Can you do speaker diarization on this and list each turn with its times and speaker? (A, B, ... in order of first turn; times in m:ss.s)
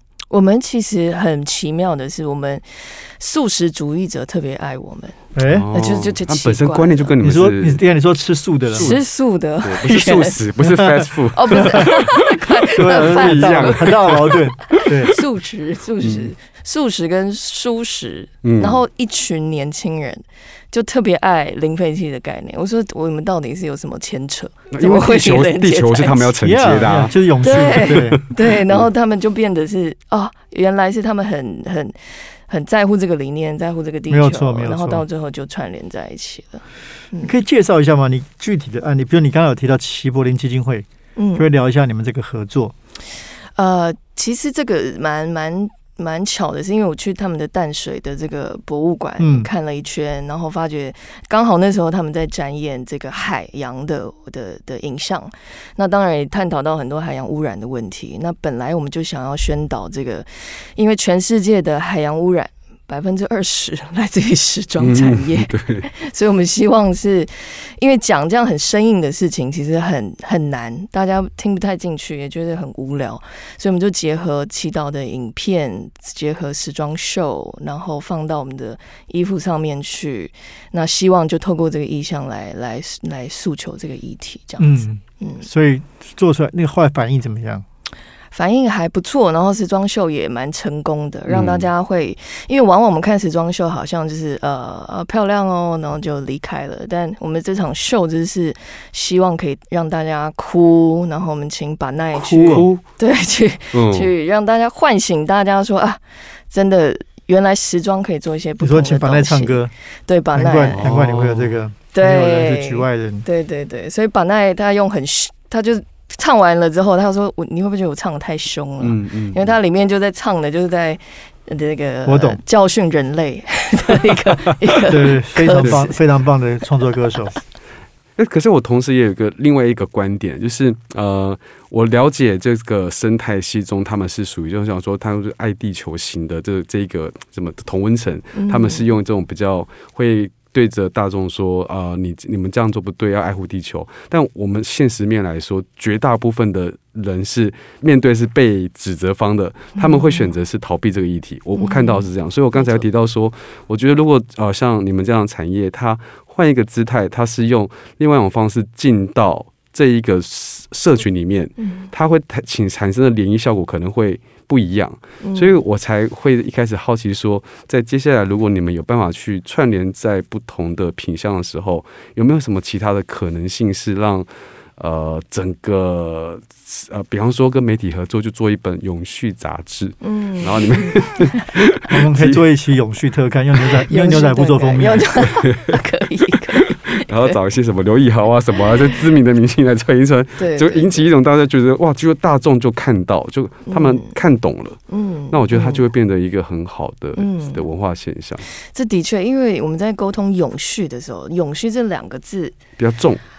0:00.3-0:07.1 A
0:05.4-0:05.7 B
0:05.5-0:07.8 C
0:07.2-0:09.0 B
0:08.7-0:09.0 C
0:08.8-0:10.4 A
0:09.6-0:15.2 C
0:10.7-0:11.1 B
0:11.3-0:26.3 A
0:12.8-0:15.1 B
0:16.0-0:16.3 C
0:18.4-0:18.8 C
0:24.7-0:28.9 C
0:26.4-0:28.2 B
0:27.4-0:37.3 A
0:34.1-0:35.0 B
0:37.2-0:42.7 B
0:41.2-0:41.4 A
0:43.6-1:25.5 A
0:49.2-0:49.5 B
1:04.8-1:05.9 C
1:24.6-1:27.6 B
1:28.3-1:50.9 A
1:31.3-1:31.7 C
1:42.2-1:42.7 B
1:42.5-1:42.8 C
1:43.7-1:44.1 C
1:48.6-1:49.7 B
1:50.3-1:53.2 B
1:50.7-1:51.6 C
1:51.9-2:06.0 A
1:58.8-1:59.6 C
2:02.1-2:02.4 B
2:04.9-2:07.4 B
2:05.5-2:05.8 C
2:08.2-3:02.4 C
2:18.4-2:18.8 A
2:29.8-2:30.3 A
2:31.6-2:32.9 A
2:41.6-2:41.9 A
2:45.2-2:45.6 A
3:00.0-3:01.4 A
3:01.9-3:05.1 B
3:03.9-3:07.4 A
3:06.9-3:14.8 C
3:10.4-3:11.1 A
3:13.7-3:14.2 A
3:14.9-3:15.8 A
3:15.3-3:18.5 C
3:17.2-3:17.6 A
3:18.6-3:22.6 A
3:22.8-3:23.2 C